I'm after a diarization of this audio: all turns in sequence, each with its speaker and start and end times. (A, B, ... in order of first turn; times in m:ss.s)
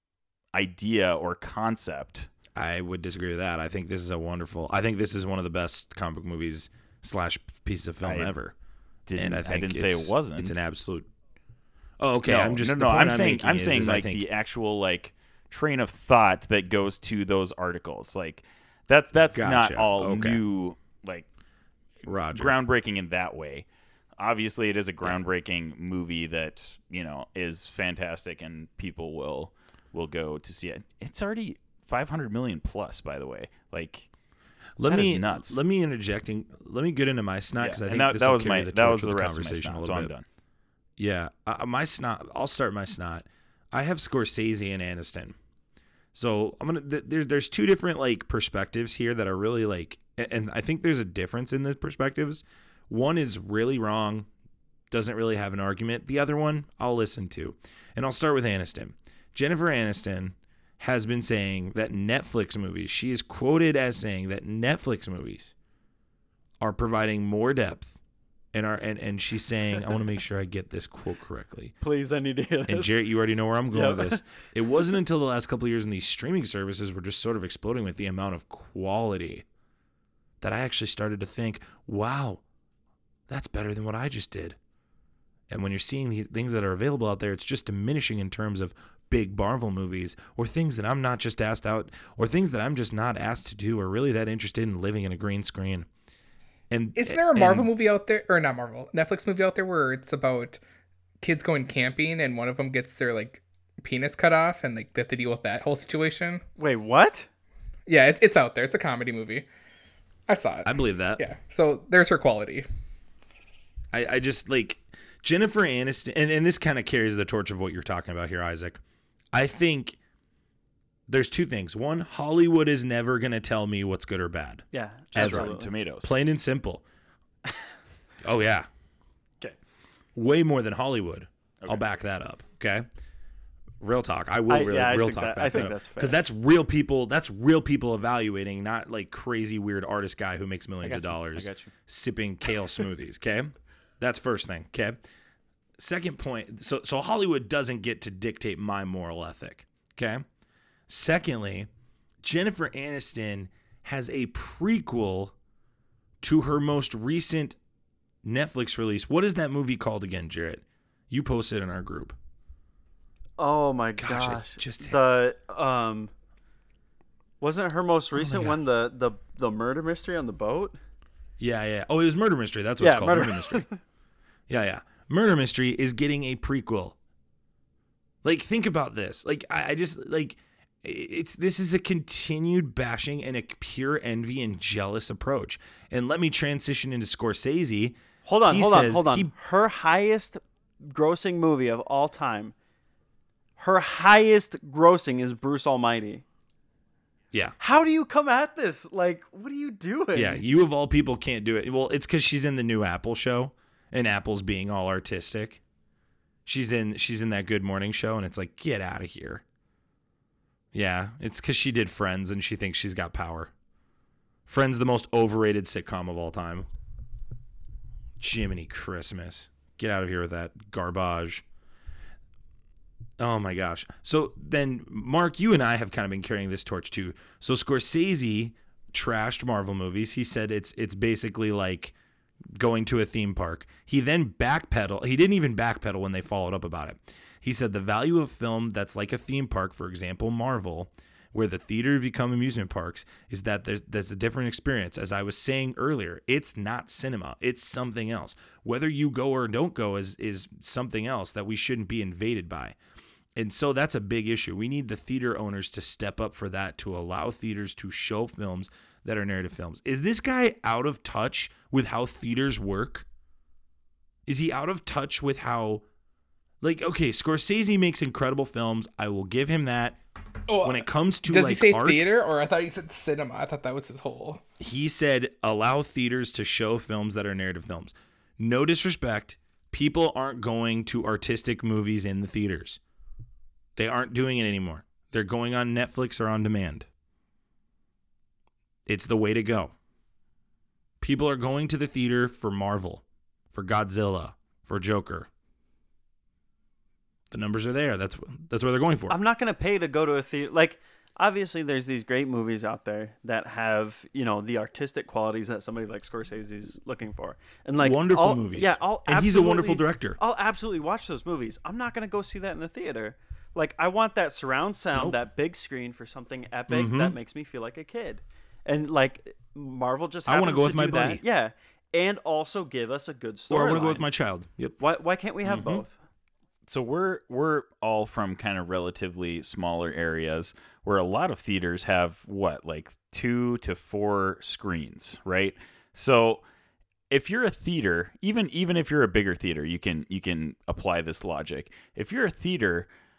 0:00.5-0:02.3 A
0:02.6-0:08.5 B
0:08.0-0:08.3 A
0:09.1-0:10.6 A
0:09.2-0:11.1 B
0:12.0-0:14.2 B
0:12.3-0:21.3 A
0:19.3-0:20.4 B
0:22.0-0:22.6 B
0:22.3-0:23.6 A
0:24.2-0:34.1 A
0:34.8-0:40.1 B
0:34.9-0:35.6 A
0:37.6-0:40.2 A
0:41.0-0:45.4 B
0:46.1-0:54.3 B
0:54.9-1:05.5 B
1:06.6-1:08.0 B
1:08.5-1:11.8 B
1:11.8-1:13.0 C
1:12.7-1:19.5 B
1:13.7-1:14.4 C
1:20.4-1:22.4 B
1:23.3-1:24.6 B
1:25.5-1:35.9 B
1:36.7-1:37.7 B
1:37.0-1:40.6 D
1:41.2-1:46.4 D
1:46.6-1:47.3 C
1:47.9-1:49.5 D
1:50.3-1:52.7 D
1:50.6-1:51.2 B
1:53.9-1:58.8 B
1:59.3-2:00.0 B
2:01.1-2:04.6 B
2:04.7-2:05.7 C
2:05.1-2:06.1 A
2:05.2-2:06.8 B
2:08.2-2:08.7 B
2:10.2-2:12.9 B
2:13.8-2:25.0 B
2:14.5-2:16.2 C
2:21.3-2:21.7 C
2:25.8-2:30.2 B
2:30.9-2:31.7 B
2:32.2-2:35.4 B
2:36.2-2:37.6 B
2:38.2-2:42.2 B
2:43.4-2:46.1 C
2:44.0-2:45.0 B
2:47.4-2:50.8 C
2:48.2-2:48.6 B
2:51.4-2:53.7 B
2:52.8-2:53.8 C
2:54.5-2:57.0 B
2:58.2-3:09.3 B
3:08.2-3:12.5 C
3:13.6-3:16.2 C
3:17.6-3:20.4 C
3:20.1-3:25.6 B
3:26.5-3:29.4 B
3:30.7-3:33.5 B
3:34.5-3:36.7 B
3:38.2-3:41.4 B
3:43.2-3:51.9 B
3:52.5-4:12.8 B
4:13.4-4:23.1 B
4:24.3-4:25.8 B
4:26.6-4:30.0 B
4:30.5-4:34.4 D
4:30.6-4:32.1 B
4:34.6-4:42.8 B
4:43.8-4:46.9 B
4:48.9-4:49.7 B
4:51.0-4:55.3 B
4:57.3-4:59.2 B
4:59.1-5:24.0 C
5:07.8-5:10.2 B
5:16.7-5:17.2 B
5:20.3-5:21.2 B
5:23.5-5:24.8 B
5:24.8-5:26.0 C
5:25.4-5:25.8 B
5:26.7-5:36.4 A
5:37.1-5:42.9 A